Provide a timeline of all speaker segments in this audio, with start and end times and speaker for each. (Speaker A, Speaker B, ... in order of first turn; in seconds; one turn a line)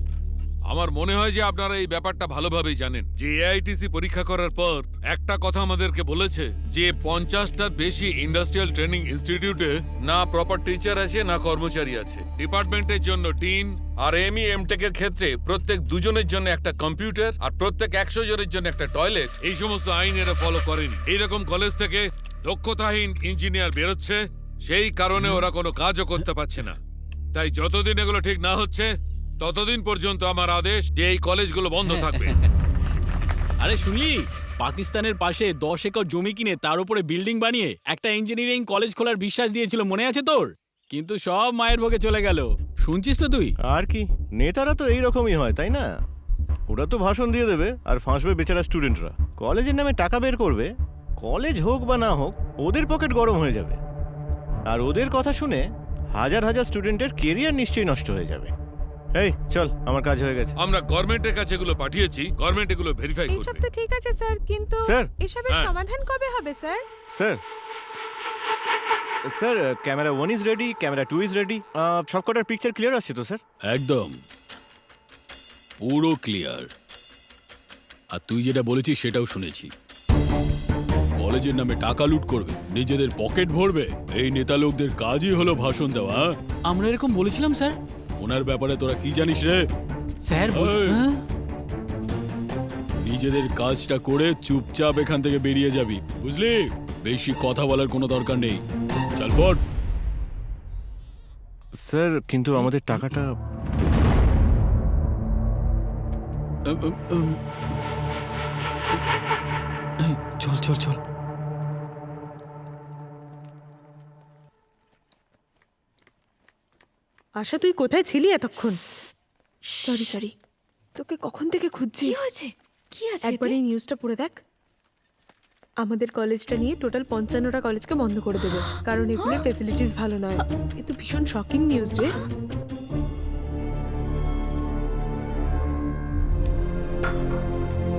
Speaker A: 0.6-26.8
Speaker B: 25.2-25.4
Speaker A: 27.3-32.4
Speaker B: 31.8-32.5
Speaker B: 33.6-43.5
Speaker C: 43.6-45.9
Speaker C: 46.7-53.8
Speaker C: 54.7-58.5
Speaker C: 59.1-60.5
Speaker A: 60.6-63.6
Speaker D: 63.3-66.8
Speaker C: 64.8-65.1
Speaker A: 65.5-65.7
Speaker C: 67.1-67.4
Speaker C: 69.3-73.4
Speaker B: 73.7-74.2
Speaker B: 75.8-76.7
Speaker B: 78.1-79.7
Speaker B: 81.1-89.6
Speaker B: 90.2-91.2
Speaker B: 93.0-98.6
Speaker B: 99.1-99.6
Speaker C: 101.8-103.3
Speaker B: 106.7-107.4
Speaker B: 110.0-111.0
Speaker D: 117.3-118.8
Speaker E: 119.7-120.3
Speaker D: 119.8-120.2
Speaker D: 121.0-122.2
Speaker E: 122.0-123.6
Speaker D: 123.2-124.4
Speaker D: 125.8-132.1
Speaker E: 129.2-129.4